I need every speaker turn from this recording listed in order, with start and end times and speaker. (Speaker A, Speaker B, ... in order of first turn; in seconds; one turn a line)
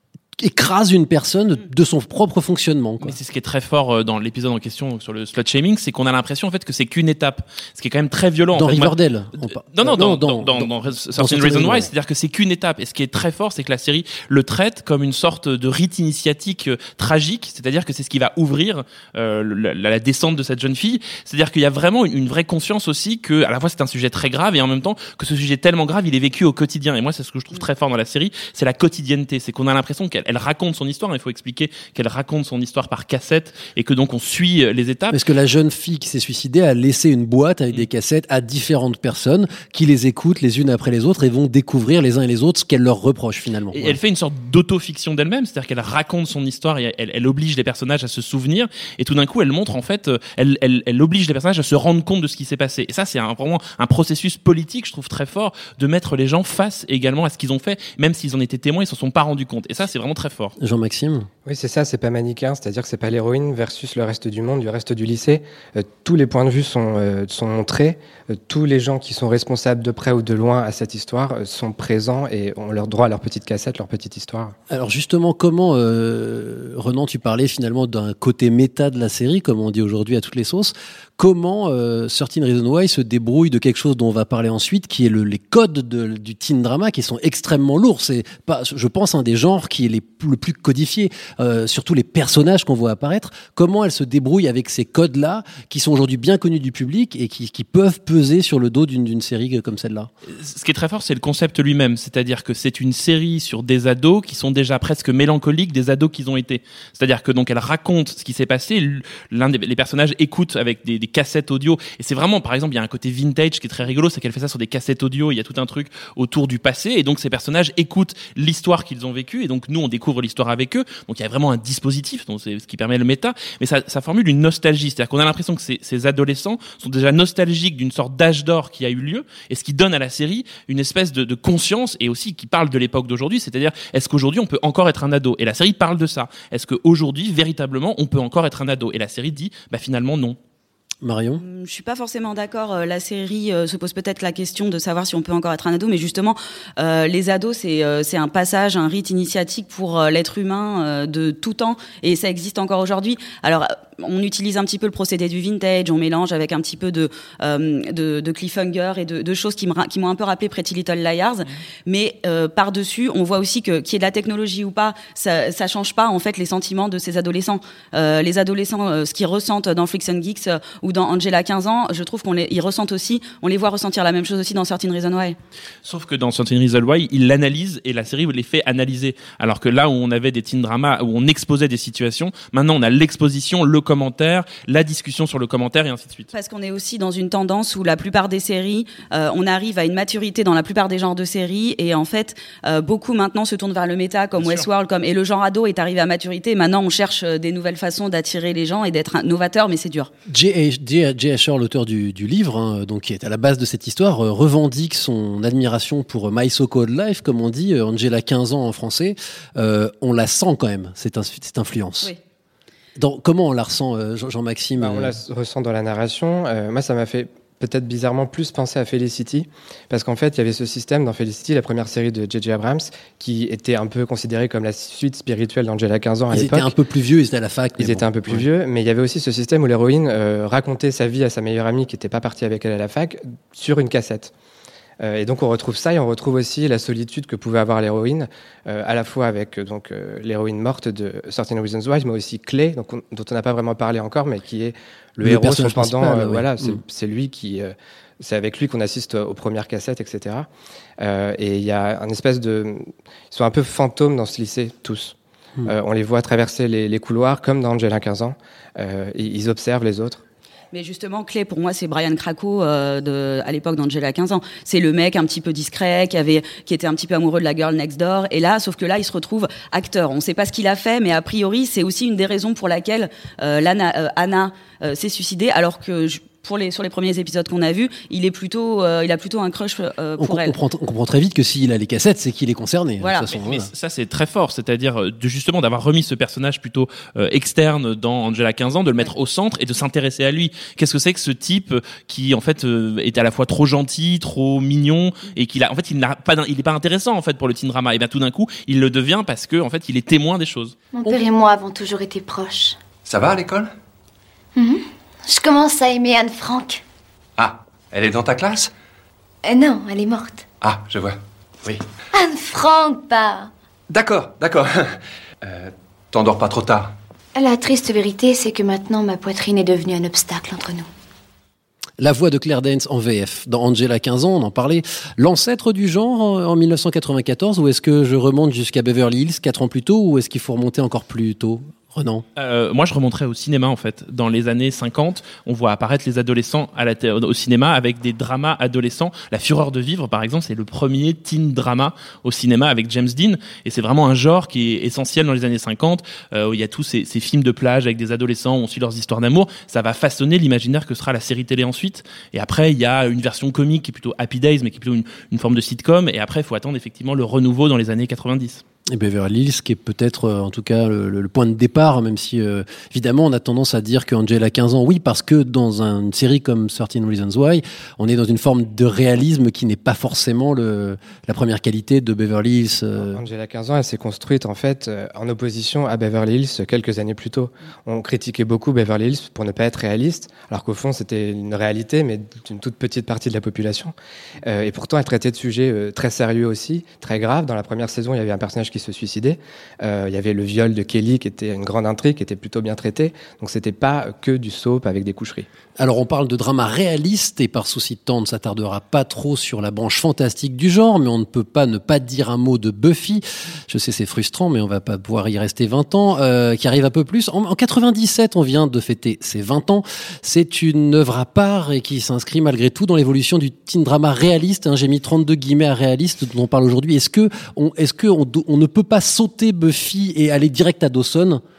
Speaker A: 0.4-3.1
Speaker B: 3.0-8.9
Speaker A: 8.5-11.9
Speaker B: 9.7-35.2
Speaker A: 35.1-44.0
Speaker B: 43.7-60.5
Speaker A: 60.6-61.3
Speaker C: 61.5-74.5
Speaker A: 74.7-100.1
Speaker B: 100.4-140.4
Speaker A: 141.0-141.4
Speaker D: 141.4-175.4
Speaker B: 175.8-186.3
Speaker D: 186.3-200.1
Speaker B: 194.4-194.6
Speaker A: 200.2-212.1
Speaker A: 212.9-215.1
Speaker C: 214.8-226.7
Speaker A: 226.3-228.4
Speaker C: 227.8-234.3
Speaker C: 235.0-250.5
Speaker A: 245.2-246.8
Speaker C: 251.0-260.2
Speaker D: 260.7-280.6
Speaker A: 280.2-283.7
Speaker D: 283.0-283.3
Speaker B: 283.3-300.7
Speaker E: 300.9-302.8
Speaker F: 303.0-303.7
Speaker E: 304.6-306.8
Speaker F: 307.4-308.7
Speaker E: 309.4-310.4
Speaker F: 310.6-311.8
Speaker E: 312.1-313.5
Speaker F: 313.9-316.9
Speaker E: 317.3-320.9
Speaker A: 322.0-332.2
Speaker B: 332.4-358.6
Speaker A: 358.9-373.2
Speaker C: 373.0-395.5
Speaker A: 395.8-421.4